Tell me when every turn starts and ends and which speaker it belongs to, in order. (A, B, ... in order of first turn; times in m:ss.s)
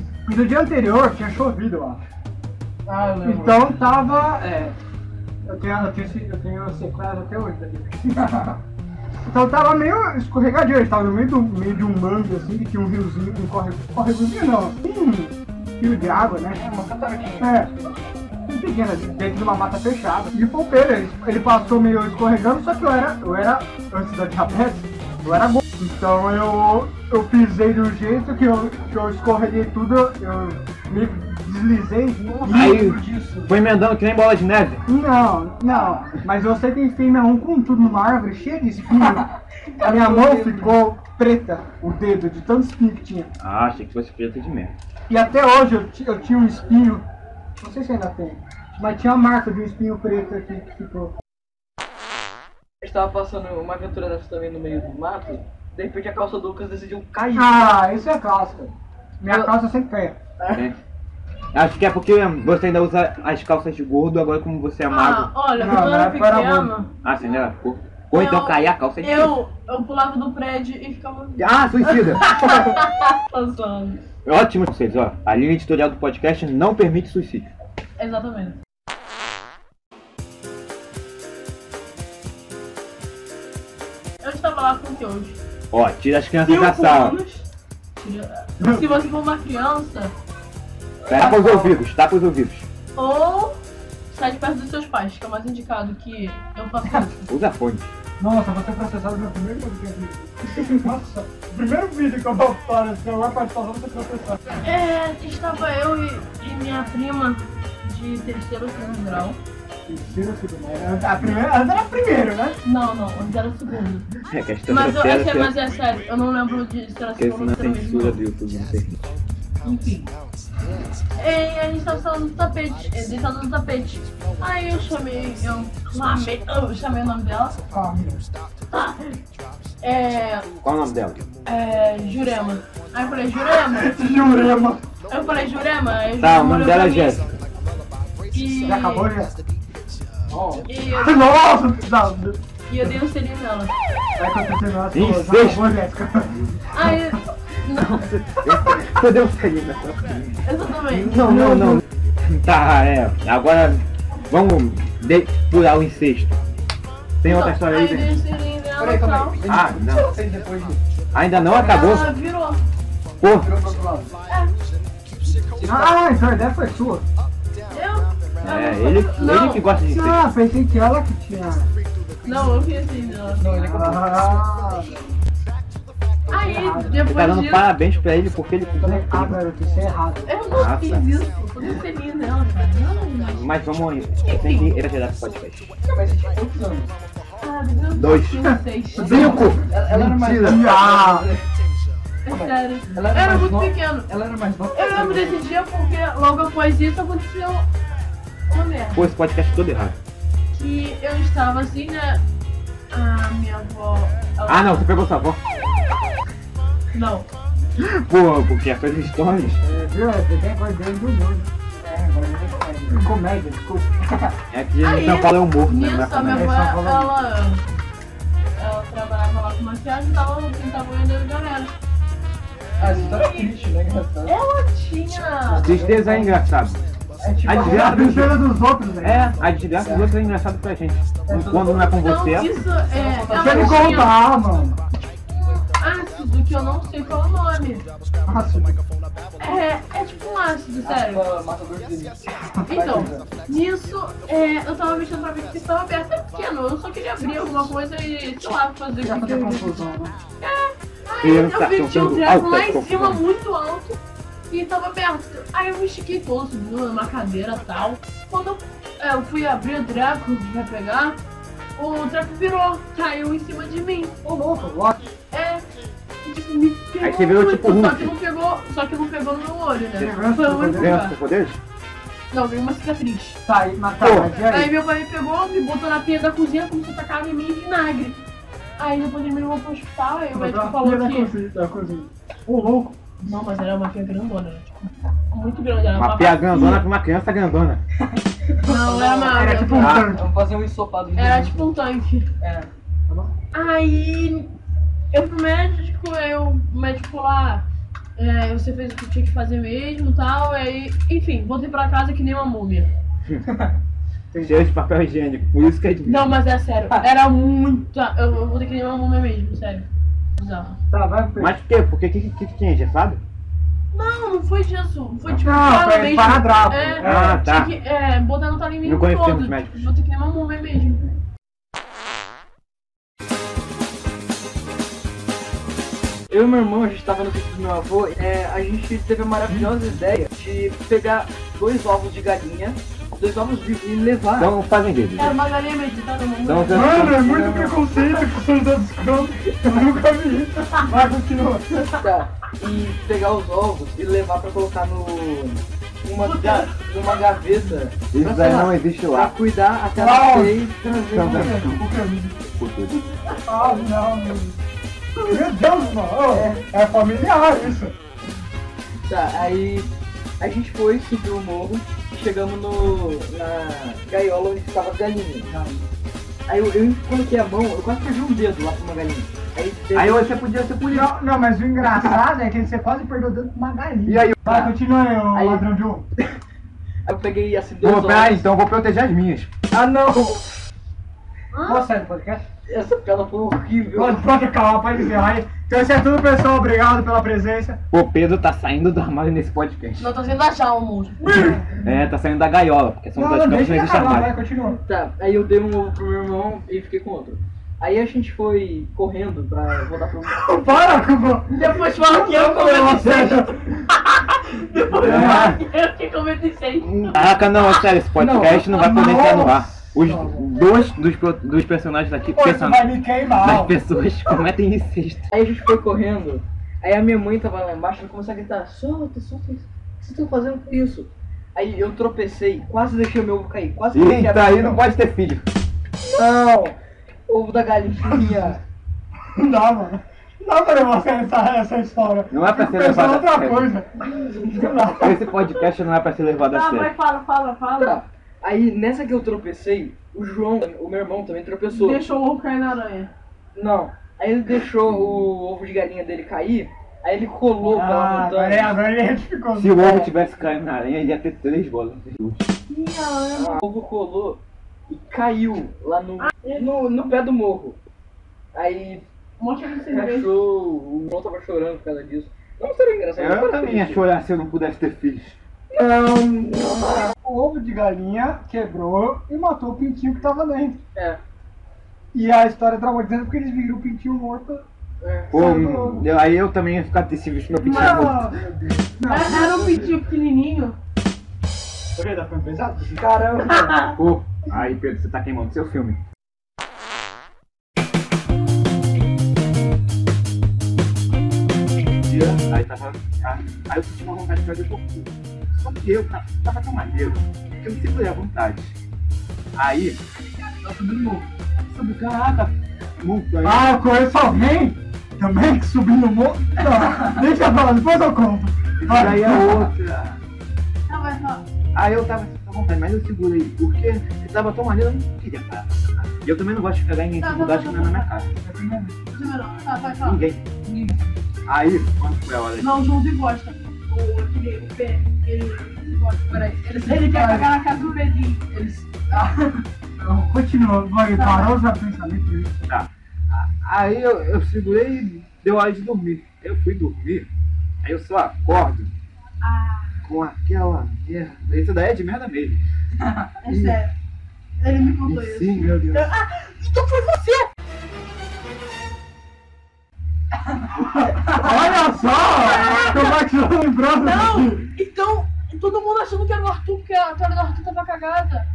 0:00.3-0:02.0 A
0:02.9-0:03.7 B
0:03.2-0:04.5 A
0:04.4-0:04.7 B
0:05.5-0:08.2 A
0:08.2-0:08.6 B
0:09.2-0:16.6 A
0:16.6-0:17.5 B
0:17.4-0:17.7 A
0:18.5-0:32.9 A
0:32.2-0:33.6 B
0:32.5-0:34.8 C
0:34.9-0:39.2 A
0:35.7-0:36.2 B
0:38.9-0:39.3 B
0:39.8-0:40.8 B
0:39.8-0:43.3 A
0:43.4-0:44.7 C
0:45.1-0:47.0 A
0:47.6-0:51.1 A
0:52.8-0:57.8 B
0:57.3-1:00.2 A
0:59.3-0:59.5 B
1:01.5-1:05.3 C
1:04.9-1:06.9 D
1:05.6-1:06.7 A
1:07.0-1:09.3 C
1:08.1-1:14.0 D
1:11.4-1:12.7 C
1:14.2-1:17.5 C
1:18.0-1:18.6 D
1:24.2-1:25.4 D
1:25.7-1:27.2 C
1:26.4-1:27.5 D
1:28.0-1:30.1 D
1:28.6-1:28.9 A
1:31.1-1:31.8 B
1:31.1-1:32.7 C
1:33.0-1:37.3 D
1:37.3-1:37.9 C
1:38.2-1:44.6 A
1:44.6-1:49.4 D
1:49.9-1:52.6 A
1:52.6-1:54.1 D
1:54.3-1:55.5 C
1:54.7-1:58.2 D
1:57.2-1:59.0 C
1:59.6-2:00.1 D
2:01.2-2:07.6 D
2:07.7-2:08.2 A
2:08.7-2:09.2 D
2:09.8-2:10.5 D
2:10.6-2:11.2 C
2:11.4-2:14.0 D
2:13.4-2:14.8 A
2:15.1-2:17.2 D
2:16.2-2:17.3 C
2:18.3-2:19.1 D
2:18.6-2:19.4 A
2:20.3-2:20.7 B
2:20.7-2:21.2 D
2:20.9-2:22.9 A
2:22.7-2:23.7 D
2:24.2-2:27.1 A
2:24.9-2:25.7 C
2:26.7-2:28.1 D
2:27.8-2:36.4 C
2:30.4-2:31.2 D
2:31.2-2:31.8 A
2:37.2-2:38.2 C
2:37.2-2:39.4 D
2:38.8-2:40.8 B
2:39.5-2:40.1 C
2:41.1-2:42.1 C
2:41.4-2:42.0 B
2:41.6-2:42.6 D
2:43.2-2:43.5 C
2:43.3-2:44.1 B
2:44.3-2:44.5 D
2:45.6-2:47.1 A
2:45.6-2:46.0 B
2:47.7-2:49.7 D
2:48.4-2:50.2 C
2:49.9-2:51.7 A
2:52.2-2:53.5 D
2:53.4-2:54.4 B
2:53.6-2:55.0 A
2:56.3-2:57.7 D
2:56.4-2:57.0 A
2:56.9-2:59.4 C
2:58.8-3:00.3 A
2:58.8-2:59.0 B
3:00.3-3:03.5 D
3:00.6-3:01.0 C
3:03.3-3:05.8 C
3:04.2-3:04.7 D
3:05.8-3:06.9 B
3:07.4-3:09.4 D
3:08.0-3:08.5 C
3:08.4-3:11.3 A
3:09.0-3:11.4 B
3:09.0-3:10.7 C
3:12.2-3:14.1 D
3:12.3-3:15.4 B
3:14.7-3:17.7 D
3:18.5-3:19.1 D
3:18.9-3:20.0 C
3:20.5-3:22.2 D
3:22.9-3:24.9 D
3:24.5-3:25.4 C
3:26.9-3:27.3 D
3:27.8-3:29.6 C
3:29.6-3:31.5 A
3:31.8-3:33.0 B
3:32.9-3:34.0 A
3:34.5-3:36.5 C
3:34.8-3:37.6 D
3:36.3-3:37.2 A
3:38.6-3:41.8 D
3:42.8-3:44.4 B
3:42.8-3:43.5 D
3:44.3-3:45.7 D
3:45.5-3:46.4 B
3:45.6-3:46.8 C
3:47.2-3:48.5 B
3:47.4-3:48.1 C
3:47.6-3:49.3 A
3:49.0-3:52.5 C
3:49.8-3:50.1 B
3:51.3-3:52.0 B
3:51.9-3:54.1 D
3:52.9-3:54.1 B
3:53.3-3:54.8 A
3:55.5-3:57.9 D
3:58.3-3:58.8 A
3:59.4-4:01.3 D
4:00.8-4:03.3 B
4:02.4-4:03.0 A
4:02.7-4:09.9 D
4:09.0-4:10.1 A
4:10.4-4:21.2 D
4:11.2-4:13.2 C
4:21.8-4:24.1 D
4:24.2-4:25.0 A
4:25.3-4:25.6 D
4:26.2-4:31.2 D
4:27.0-4:28.1 C
4:29.9-4:31.0 A
4:30.7-4:31.6 C
4:32.3-4:33.4 D
4:33.4-4:34.7 A
4:34.0-4:34.4 C
4:34.5-4:38.2 D
4:38.8-4:41.3 D
4:40.3-4:43.0 A
4:43.2-4:46.9 D
4:46.0-4:47.8 C
4:48.6-4:50.1 D
4:48.6-4:51.7 B
4:49.3-4:50.3 A
4:49.8-4:50.1 C
4:51.2-4:52.3 D
4:52.4-4:53.3 B
4:53.5-4:54.5 D
4:55.1-5:02.9 D
5:04.3-5:04.7 A
5:04.4-5:06.3 C
5:06.1-5:10.8 D
5:10.9-5:11.6 A
5:11.4-5:13.2 C
5:13.9-5:21.1 D
5:15.3-5:17.4 A
5:17.0-5:17.7 C
5:18.8-5:19.9 C
5:26.3-5:34.5 B
5:29.5-5:29.8 A
5:34.4-5:35.4 C
5:35.2-5:37.1 D
5:36.4-5:37.3 C
5:36.7-5:41.8 A
5:36.9-5:38.2 B
5:41.9-5:51.7 B
5:46.2-5:46.8 D
5:46.4-5:46.7 C
5:48.1-5:49.4 C
5:49.9-5:50.7 A
5:51.0-5:51.8 C
5:51.3-5:52.4 A
5:52.5-5:53.0 C
5:53.5-5:54.6 A
5:55.2-5:58.0 A
5:56.3-5:56.6 B
5:59.1-6:05.5 B
6:05.5-6:05.8 A
6:06.5-6:10.3 B
6:10.0-6:11.1 C
6:10.9-6:16.0 A
6:14.1-6:14.6 C
6:15.3-6:15.7 B
6:17.0-6:18.5 B
6:17.8-6:19.5 C
6:19.7-6:20.5 B
6:21.5-6:21.9 D
6:21.6-6:22.4 A
6:22.7-6:24.3 B
6:23.9-6:27.8 A
6:27.9-6:30.1 C
6:30.0-6:31.5 D
6:31.2-6:31.8 A
6:31.8-6:34.3 C
6:33.1-6:34.8 A
6:34.9-6:41.2 B
6:40.3-6:43.7 A
6:41.5-6:47.8 D
6:45.0-6:45.6 C
6:45.0-6:45.6 A
6:46.8-6:55.3 C
6:48.2-6:49.3 B
6:48.7-6:50.5 A
6:52.3-6:53.8 A
6:55.3-7:04.8 B
7:03.9-7:05.5 C
7:06.1-7:06.8 B
7:07.3-7:08.6 B
7:09.4-7:14.0 A
7:12.3-7:13.7 C
7:14.1-7:15.0 B
7:14.5-7:15.2 A
7:15.0-7:16.9 C
7:16.4-7:18.0 D
7:17.8-7:22.1 B
7:21.7-7:23.1 D
7:23.6-7:28.8 B
7:24.8-7:25.3 C
7:27.6-7:29.8 A
7:29.6-7:32.5 C
7:29.8-7:30.1 B
7:32.7-7:33.6 D
7:33.4-7:37.8 B
7:36.2-7:36.6 D
7:38.5-7:39.0 B
7:39.4-7:40.3 D
7:39.9-7:44.0 B
7:43.2-7:45.4 C
7:45.7-7:47.1 B
7:47.2-7:50.8 A
7:52.1-7:54.6 A
7:55.0-7:55.3 B
7:55.3-7:58.3 C
7:55.3-7:56.1 A
7:57.6-7:58.0 D
7:57.6-7:59.9 A
7:59.0-8:00.8 D
8:02.0-8:03.1 A
8:03.0-8:03.9 B
8:03.7-8:04.0 D
8:03.9-8:06.0 C
8:12.1-8:18.8 C
8:19.6-8:20.0 C
8:20.6-8:21.3 B
8:21.7-8:23.7 C
8:23.4-8:29.7 A
8:28.8-8:30.2 C
8:30.9-8:31.4 D
8:31.7-8:38.3 C
8:37.2-8:38.1 D
8:38.4-8:39.0 A
8:39.1-8:40.2 D
8:40.0-8:40.5 C
8:40.7-8:41.0 B
8:41.5-8:42.9 C
8:42.6-8:48.4 D
8:46.3-8:47.6 B
8:48.5-8:49.6 B
8:50.0-8:52.6 A
8:51.1-8:51.6 D
8:52.7-8:57.3 C
8:57.8-8:58.9 C
8:59.4-9:00.1 D
9:00.0-9:02.6 C
9:03.4-9:03.9 D
9:03.5-9:03.8 C
9:04.6-9:07.4 D
9:05.0-9:06.1 C
9:10.6-9:11.8 B
9:11.0-9:14.7 A
9:12.3-9:13.2 D
9:14.0-9:18.5 D